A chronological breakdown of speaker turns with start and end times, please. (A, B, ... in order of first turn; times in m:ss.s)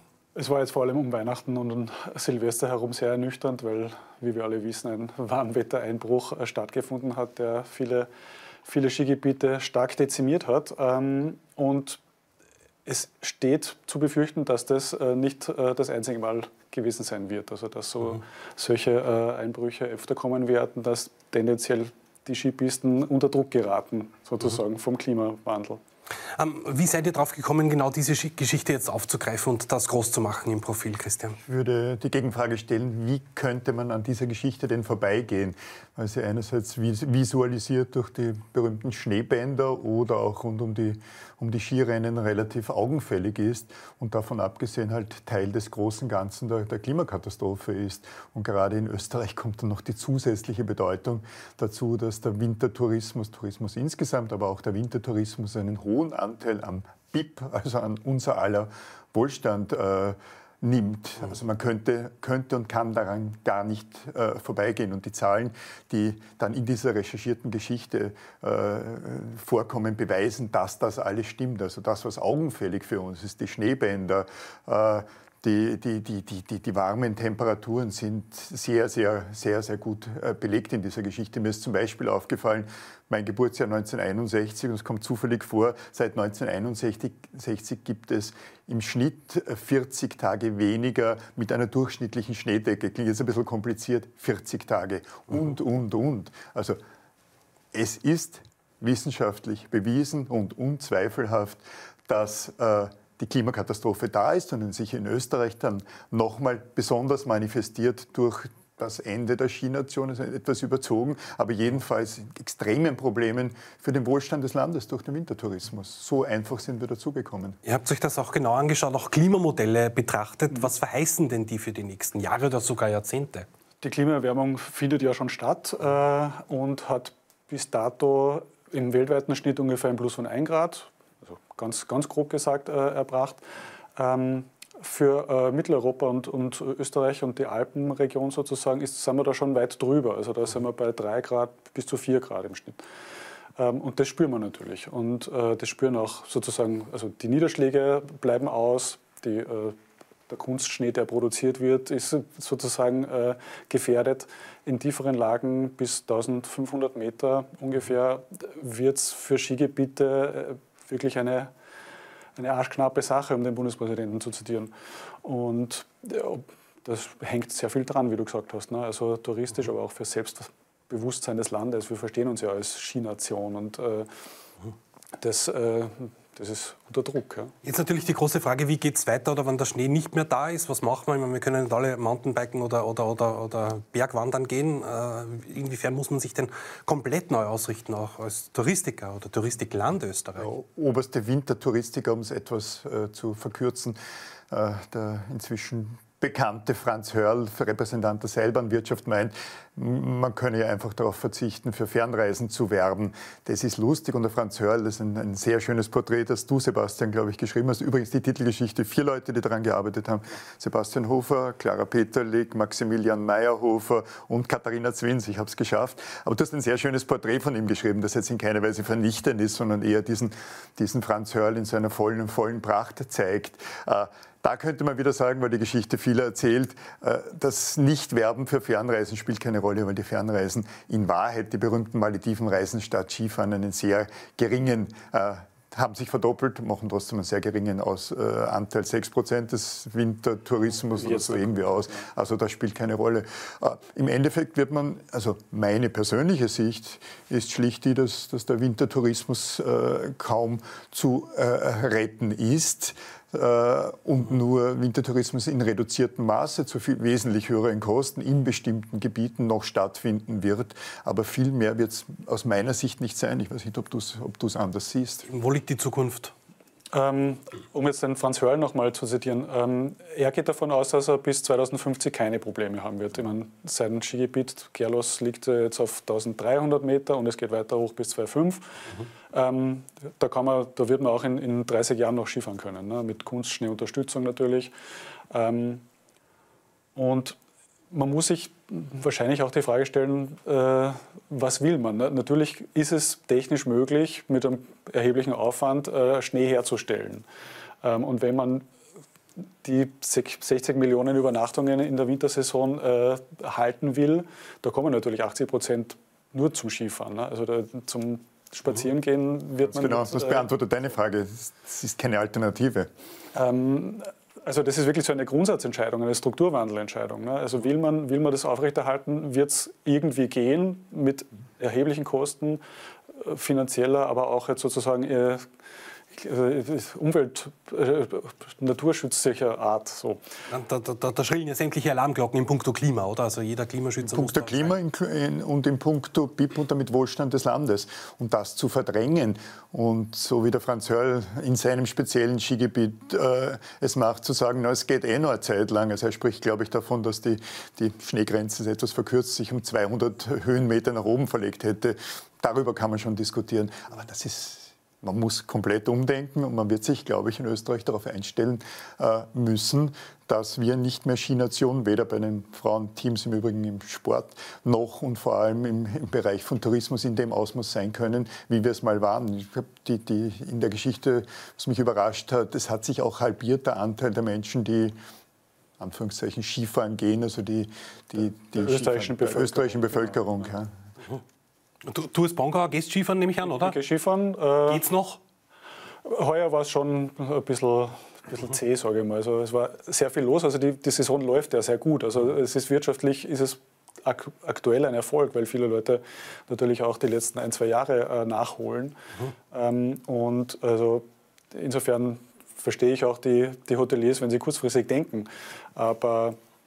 0:00.3-0:08.1 A
0:08.6-0:12.0 A
0:12.8-0:25.8 A
0:26.4-0:31.4 B
0:31.4-1:36.8 C
1:37.7-1:57.6 C
1:57.6-2:03.5 B
2:03.8-2:13.4 A
2:14.0-2:22.8 A
2:23.6-2:29.8 A
2:30.3-2:41.5 A
2:42.4-2:44.7 A
2:45.2-2:54.1 A
2:55.2-2:57.5 A
2:57.6-3:10.5 B
3:10.4-3:14.0 C
3:14.5-4:25.3 C
4:00.9-4:02.0 A
4:25.3-4:26.3 B
4:26.9-4:44.7 A
4:45.3-4:45.8 A
4:46.9-4:47.4 A
4:47.9-4:57.2 A
4:57.8-4:58.6 A
4:59.6-5:10.5 A
5:09.7-5:12.9 C
5:13.3-5:22.6 A
5:23.1-5:25.4 A
5:26.1-5:30.2 A
5:30.5-5:34.8 B
5:34.0-6:15.0 C
6:15.8-6:20.7 C
6:18.4-6:20.2 A
6:21.8-6:23.8 B
6:23.4-6:24.9 A
6:24.7-6:25.2 B
6:26.0-6:39.0 A
6:39.5-6:46.4 A